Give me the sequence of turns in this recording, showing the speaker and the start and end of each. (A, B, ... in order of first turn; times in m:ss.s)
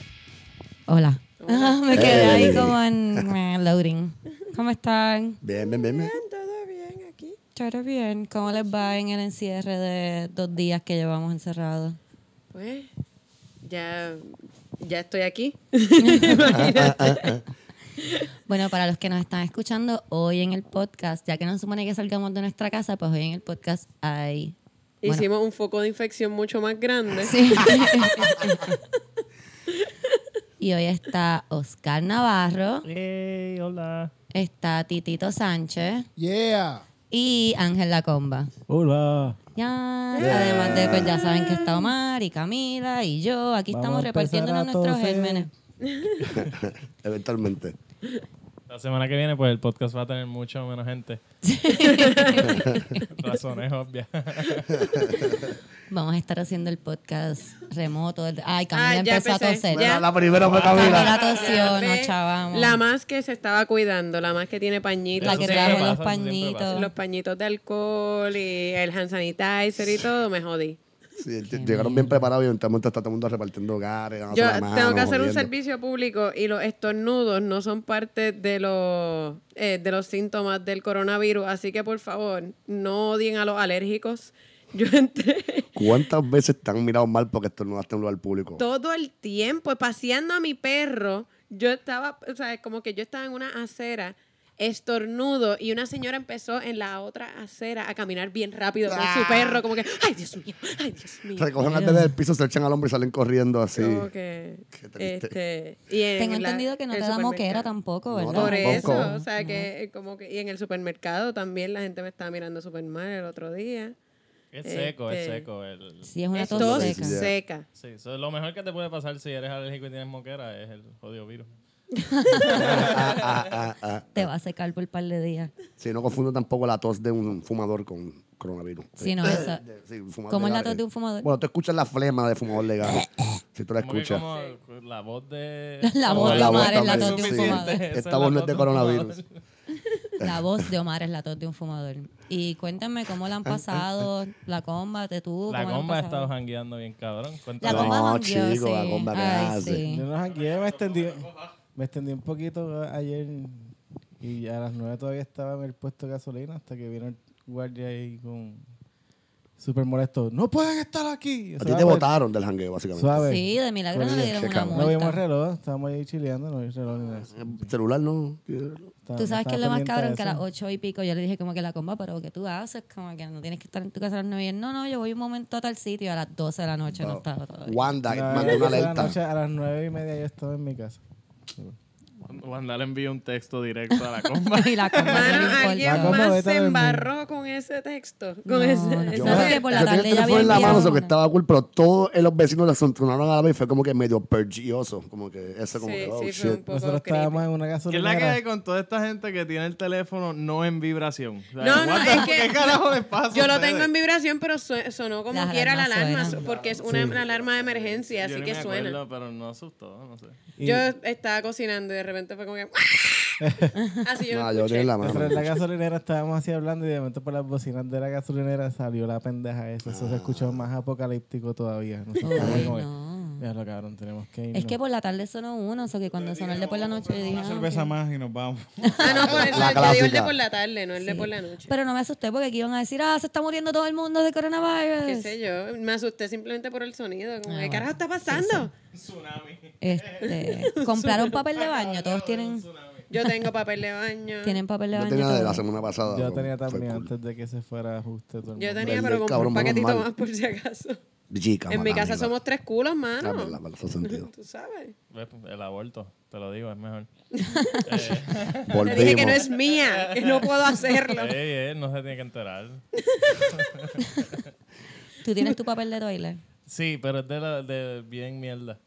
0:00.9-0:05.4 A
0:01.4-0:02.6 B
0:01.9-0:03.2 C
0:05.4-0:06.2 C
0:05.6-0:07.4 B
0:07.6-0:12.0 A
0:12.5-0:12.9 B
0:13.6-0:17.4 B
0:16.0-0:16.6 A
0:16.5-0:17.4 C
0:18.5-0:25.2 A
0:25.0-0:27.5 B
0:27.2-0:28.8 A
0:30.6-0:32.8 A
0:32.8-0:34.1 D
0:34.3-0:36.1 A
0:36.2-0:36.8 E
0:37.1-0:38.5 A
0:38.7-0:39.4 F
0:39.6-0:45.5 A
0:40.2-0:41.2 B
0:40.2-0:41.2 C
0:43.7-0:45.5 F
0:45.8-0:46.2 B
0:46.2-0:47.8 C
0:48.7-0:51.2 D
0:51.4-0:53.3 A
0:51.9-0:52.4 B
0:52.4-0:52.8 C
0:53.1-0:55.0 D
0:54.8-0:55.5 C
0:55.9-0:59.8 A
0:58.7-1:00.1 B
0:59.7-1:01.2 C
1:00.4-1:01.5 D
1:00.6-1:05.9 B
1:00.7-1:02.8 A
1:05.2-1:06.9 D
1:05.2-1:06.9 A
1:06.7-1:10.8 B
1:11.2-1:15.5 C
1:11.4-1:12.3 A
1:14.3-1:25.7 B
1:25.8-1:28.6 C
1:28.6-1:41.6 B
1:38.9-1:39.6 C
1:41.4-1:44.1 C
1:41.6-1:42.2 A
1:43.7-1:47.7 B
1:44.7-1:45.3 C
1:46.2-1:49.7 A
1:48.1-1:49.1 C
1:48.3-1:53.9 B
1:54.5-1:56.1 D
1:54.6-1:55.5 B
1:56.0-1:57.2 A
1:56.3-1:57.6 B
1:56.5-1:57.3 C
1:57.8-2:01.5 D
2:02.0-2:02.9 A
2:02.4-2:03.5 D
2:02.5-2:04.2 C
2:04.1-2:05.5 A
2:05.8-2:14.2 C
2:09.0-2:09.6 A
2:10.3-2:11.3 A
2:12.8-2:13.3 A
2:13.8-2:19.4 D
2:14.2-2:14.6 B
2:15.8-2:17.8 A
2:16.1-2:19.2 C
2:20.2-2:26.3 A
2:23.5-2:23.8 C
2:25.5-2:28.0 D
2:27.6-2:30.1 A
2:27.6-2:29.8 C
2:29.8-2:38.6 F
2:30.3-2:31.6 D
2:39.6-2:42.1 F
2:41.6-2:43.2 C
2:42.9-2:47.7 F
2:43.2-2:45.2 A
2:44.1-2:44.9 C
2:47.0-2:48.9 C
2:49.0-2:50.4 F
2:49.2-2:57.9 A
2:57.0-2:59.2 C
2:58.1-3:01.0 F
3:02.3-3:05.6 D
3:04.5-3:06.2 A
3:05.0-3:10.9 B
3:05.8-3:07.1 F
3:08.4-3:11.1 A
3:09.1-3:16.6 C
3:15.7-3:17.4 B
3:16.7-3:18.4 F
3:17.9-3:23.9 D
3:21.6-3:29.0 B
3:25.3-3:26.4 A
3:26.2-3:28.6 C
3:28.2-3:30.4 D
3:30.6-3:30.9 F
3:30.6-3:33.4 B
3:33.4-3:33.8 F
3:33.8-3:34.0 A
3:34.0-3:35.0 B
3:34.3-3:35.5 C
3:35.0-3:44.8 F
3:39.8-3:40.6 C
3:42.2-3:43.4 A
3:42.4-3:42.7 C
3:44.5-3:47.9 A
3:46.1-3:49.5 E
3:48.8-3:49.1 A
3:49.0-3:50.3 C
3:49.0-3:51.7 B
3:51.0-3:55.3 A
3:55.0-3:58.7 B
3:57.4-3:58.7 A
3:58.9-4:00.7 D
3:59.8-4:02.6 A
4:00.7-4:01.3 B
4:01.6-4:03.0 D
4:03.1-4:04.6 B
4:04.4-4:05.6 A
4:04.9-4:07.1 C
4:06.0-4:09.0 F
4:08.6-4:11.0 B
4:08.8-4:10.1 C
4:11.3-4:12.3 C
4:11.7-4:14.9 B
4:13.2-4:14.3 C
4:15.1-4:17.1 D
4:17.4-4:17.8 A
4:17.8-4:24.4 D
4:18.7-4:19.4 C
4:18.8-4:21.4 B
4:23.0-4:23.3 B
4:25.2-4:26.4 A
4:26.7-4:28.8 D